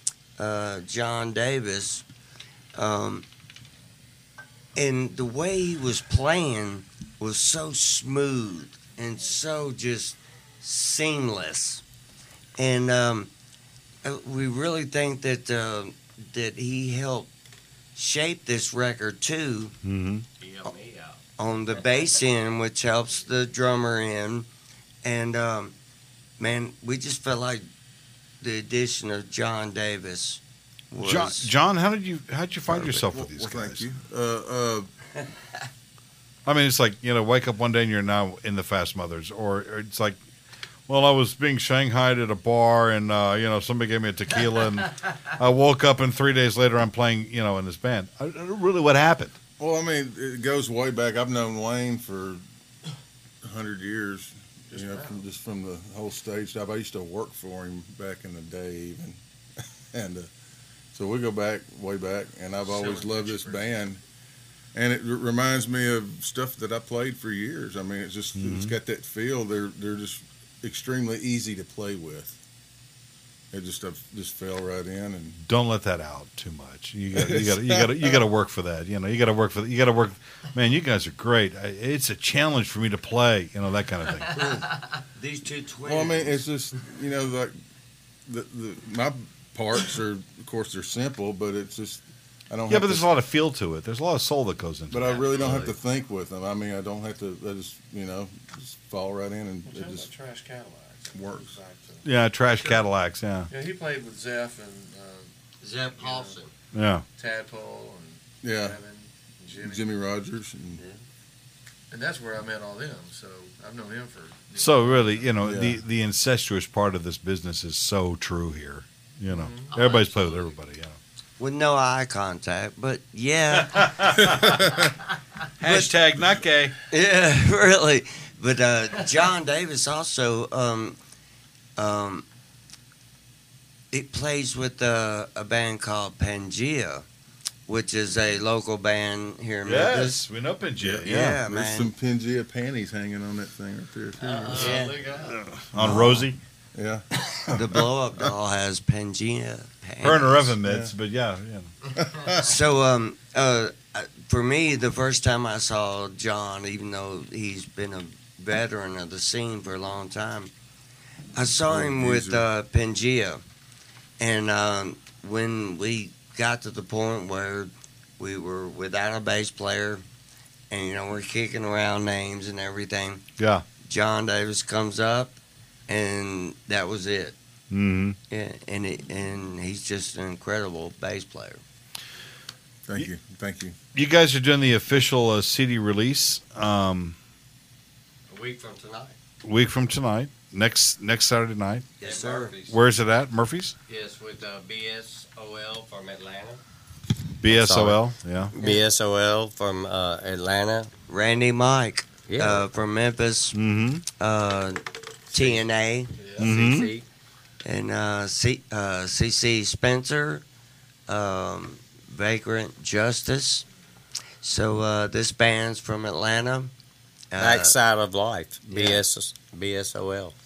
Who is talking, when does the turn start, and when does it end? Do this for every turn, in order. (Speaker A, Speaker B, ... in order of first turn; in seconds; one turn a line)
Speaker A: 0.4-2.0
Speaker A: 2.7-3.2
Speaker A: 4.7-11.8
Speaker A: 12.6-13.3
Speaker A: 14.0-17.3
Speaker A: 17.9-19.7
Speaker B: 19.8-20.2
Speaker C: 20.4-21.2
Speaker A: 21.4-24.5
Speaker A: 25.0-25.7
Speaker A: 26.4-27.6
Speaker A: 28.4-31.5
Speaker B: 31.0-33.9
Speaker D: 32.7-34.9
Speaker B: 36.5-40.2
Speaker B: 40.9-49.4
Speaker D: 49.6-52.4
Speaker D: 53.4-59.2
Speaker E: 54.7-55.2
Speaker D: 59.9-60.3
Speaker D: 60.9-64.0
Speaker E: 62.6-63.7
Speaker D: 64.7-72.4
Speaker B: 68.3-68.7
Speaker D: 73.5-75.4
Speaker B: 75.4-84.6
Speaker D: 77.2-78.2
Speaker A: 85.2-86.4
Speaker D: 85.8-87.5
Speaker D: 88.3-93.1
Speaker B: 92.7-95.2
Speaker D: 94.9-100.1
Speaker C: 95.3-95.8
Speaker E: 99.7-102.0
Speaker D: 101.1-101.5
Speaker B: 102.0-103.5
Speaker E: 102.6-102.9
Speaker E: 103.5-105.3
Speaker C: 105.6-106.5
Speaker E: 105.9-106.4
Speaker B: 106.7-107.0
Speaker E: 107.2-109.9
Speaker D: 108.4-108.8
Speaker D: 109.6-110.8
Speaker E: 111.9-115.4
Speaker B: 114.6-121.0
Speaker D: 115.4-115.8
Speaker E: 119.2-119.7
Speaker C: 119.7-120.5
Speaker A: 121.4-124.6
Speaker B: 123.5-124.7
Speaker D: 124.3-124.8
Speaker B: 125.6-126.7
Speaker A: 125.6-125.9
Speaker A: 126.9-131.0
Speaker A: 131.8-132.2
Speaker A: 133.9-137.0
Speaker A: 137.7-140.2
Speaker B: 139.6-141.4
Speaker D: 140.8-144.8
Speaker A: 141.1-141.9
Speaker C: 144.2-145.4
Speaker A: 144.5-145.0
Speaker B: 145.2-146.4
Speaker D: 145.8-146.2
Speaker A: 145.8-146.2
Speaker D: 146.7-148.3
Speaker A: 147.5-150.5
Speaker B: 150.0-151.7
Speaker D: 150.6-150.9
Speaker D: 151.9-152.5
Speaker A: 152.4-160.5
Speaker A: 161.3-163.4
Speaker D: 161.6-162.4
Speaker A: 164.2-170.0
Speaker A: 170.7-173.2
Speaker B: 173.4-173.7
Speaker A: 173.8-175.3
Speaker A: 175.9-177.3
Speaker B: 177.7-178.2
Speaker A: 178.3-181.6
Speaker D: 182.8-183.8
Speaker B: 183.9-187.2
Speaker C: 188.3-189.2
Speaker B: 189.4-191.9
Speaker A: 192.0-192.5
Speaker C: 192.0-192.8
Speaker B: 192.7-193.7
Speaker C: 193.9-196.6
Speaker B: 197.4-198.5
Speaker C: 197.4-198.0
Speaker C: 198.5-200.9
Speaker A: 201.1-203.6
Speaker C: 202.3-202.6
Speaker B: 203.5-204.1
Speaker A: 204.2-206.1
Speaker E: 206.2-206.5
Speaker C: 206.4-207.1
Speaker B: 206.4-206.9
Speaker A: 207.6-210.4
Speaker A: 211.1-213.7
Speaker A: 214.4-216.7
Speaker A: 217.3-217.7
Speaker C: 217.3-220.3
Speaker A: 218.7-219.0